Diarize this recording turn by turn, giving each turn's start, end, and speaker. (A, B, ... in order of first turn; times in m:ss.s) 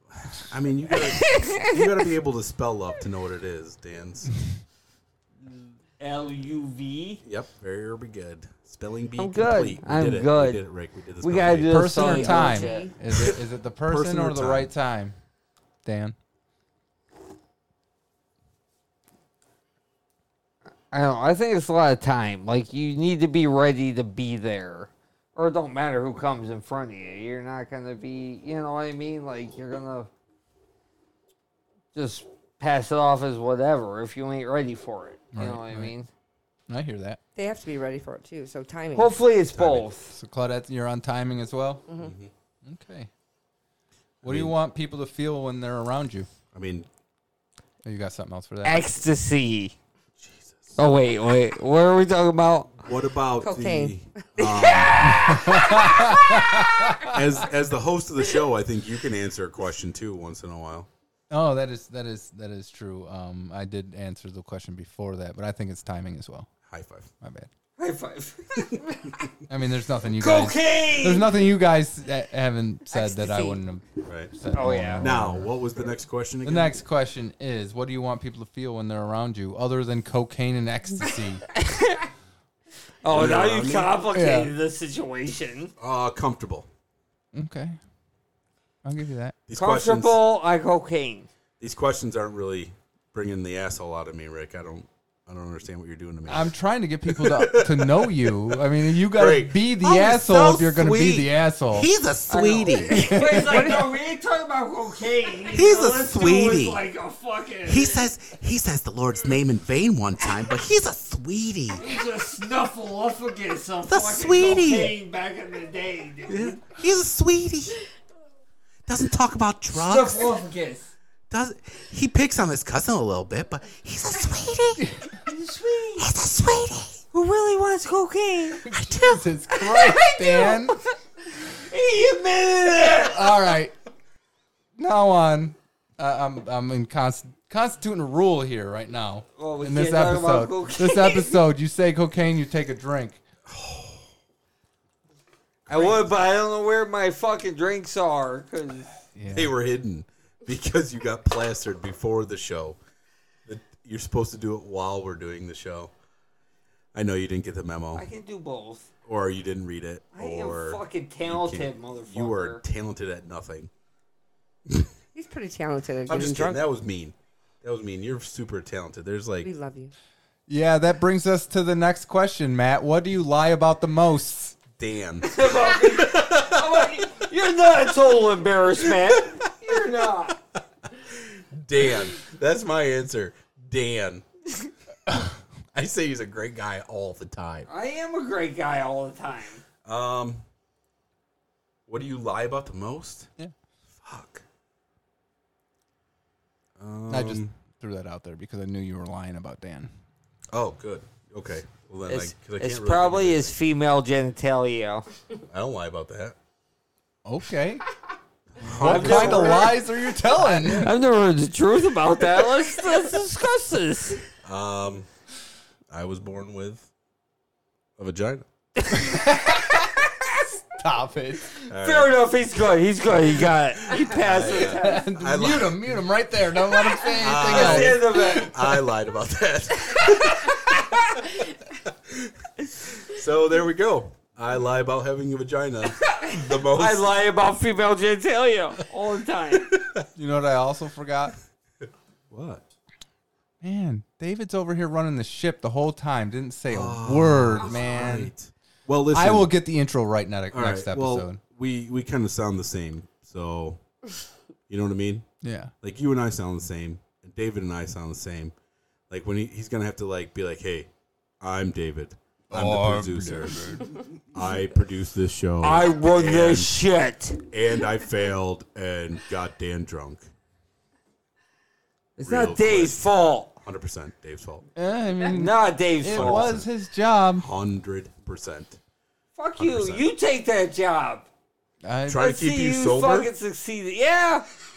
0:00.2-0:04.3 A
0:01.0-0:01.7 B
0:06.0-0:07.2 B
0:07.2-0:11.9 A
0:09.2-0:10.6 B
0:11.2-0:12.9 B
0:11.7-0:15.2 C
0:12.0-0:12.9 D
0:13.2-0:14.7 A
0:15.8-0:16.2 C
0:20.9-0:30.1 B
0:31.9-0:36.1 B
0:35.3-0:35.9 C
0:36.7-0:37.2 C
0:37.4-0:39.2 D
0:38.9-0:40.1 B
0:39.5-0:39.9 A
0:40.1-0:41.8 C
0:41.9-0:42.1 D
0:41.9-0:42.3 A
0:42.6-0:43.1 C
0:44.2-0:46.3 C
0:44.2-0:44.6 A
0:46.5-0:46.9 A
0:47.8-0:49.0 C
0:48.6-0:49.7 B
0:50.2-0:50.8 A
0:50.8-0:52.8 B
0:52.8-0:55.0 A
0:53.4-0:55.1 D
0:55.0-0:57.2 C
0:55.1-0:55.7 B
0:57.0-1:00.9 A
1:01.3-1:06.5 C
1:06.6-1:07.1 A
1:07.2-1:07.5 C
1:07.8-1:09.2 B
1:09.5-1:15.5 C
1:10.1-1:11.4 B
1:12.9-1:13.6 D
1:14.0-1:14.3 A
1:14.5-1:15.2 B
1:15.0-1:16.8 A
1:16.4-1:21.4 C
1:21.6-1:22.0 B
1:23.0-1:25.7 B
1:23.0-1:24.0 A
1:24.1-1:24.5 C
1:25.8-1:26.7 A
1:27.3-1:27.8 C
1:28.8-1:29.4 C
1:29.5-1:30.2 A
1:29.5-1:31.3 B
1:31.6-1:36.5 A
1:36.3-1:41.9 C
1:37.1-1:43.1 A
1:42.3-1:48.1 B
1:42.9-1:43.7 C
1:43.4-1:43.9 D
1:45.5-1:46.8 A
1:47.6-1:51.9 A
1:51.8-1:56.6 B
1:53.8-1:55.0 A
1:56.3-1:57.8 A
1:58.9-2:00.4 A
1:59.7-2:00.9 B
2:01.3-2:04.9 A
2:04.8-2:05.1 C
2:05.2-2:06.1 B
2:06.0-2:07.0 A
2:07.1-2:08.7 B
2:08.6-2:10.8 C
2:08.7-2:09.2 A
2:09.5-2:10.7 B
2:11.5-2:13.5 B
2:13.1-2:13.7 C
2:14.8-2:23.2 C
2:19.4-2:21.4 B
2:23.4-2:24.1 A
2:25.7-2:26.1 A
2:25.7-2:28.9 B
2:29.1-2:29.5 C
2:29.3-2:32.8 A
2:33.4-2:35.9 A
2:36.9-2:38.1 A
2:37.9-2:38.9 B
2:39.0-2:43.7 A
2:40.1-2:42.6 B
2:45.1-2:46.6 D
2:46.1-2:49.5 A
2:49.4-2:49.9 D
2:50.5-2:54.6 C
2:54.8-2:57.3 A
2:55.2-3:00.4 B
2:58.9-2:59.8 A
3:00.9-3:04.2 A
3:05.7-3:07.7 A
3:07.7-3:09.6 B
3:09.8-3:10.4 A
3:11.9-3:13.3 A
3:14.0-3:14.4 A
3:16.8-3:17.5 A
3:17.1-3:19.9 C
3:20.5-3:23.6 A
3:22.1-3:25.0 B
3:25.5-3:26.4 A
3:27.2-3:27.8 C
3:28.6-3:29.8 A
3:28.7-3:30.9 C
3:28.8-3:34.2 B
3:30.6-3:30.9 A
3:34.4-3:35.1 A
3:35.9-3:36.9 A
3:38.0-3:38.4 A
3:38.9-3:39.9 C
3:40.8-3:41.6 C
3:41.7-3:42.2 A
3:41.7-3:45.0 B
3:43.7-3:45.9 A
3:44.6-3:48.4 C
3:47.2-3:50.6 A
3:47.3-3:48.6 B
3:51.8-3:52.3 A
3:53.0-3:57.1 A
3:55.8-3:59.8 B
4:00.1-4:01.4 C
4:02.3-4:02.6 A
4:03.6-4:08.3 C
4:06.7-4:09.5 A
4:09.1-4:11.4 C
4:10.5-4:13.8 A
4:14.7-4:15.3 A
4:15.4-4:15.7 C
4:15.8-4:18.5 A
4:19.1-4:20.9 A
4:21.4-4:26.8 A
4:25.6-4:27.4 B
4:27.5-4:30.2 A
4:32.2-4:33.6 B
4:32.2-4:33.0 A
4:33.6-4:34.6 A
4:34.8-4:37.5 C
4:35.3-4:36.5 B
4:36.0-4:36.7 A
4:37.4-4:38.8 A
4:39.4-4:41.3 B
4:39.6-4:40.1 A
4:41.8-4:42.3 C
4:42.1-4:43.3 A
4:42.2-4:44.4 B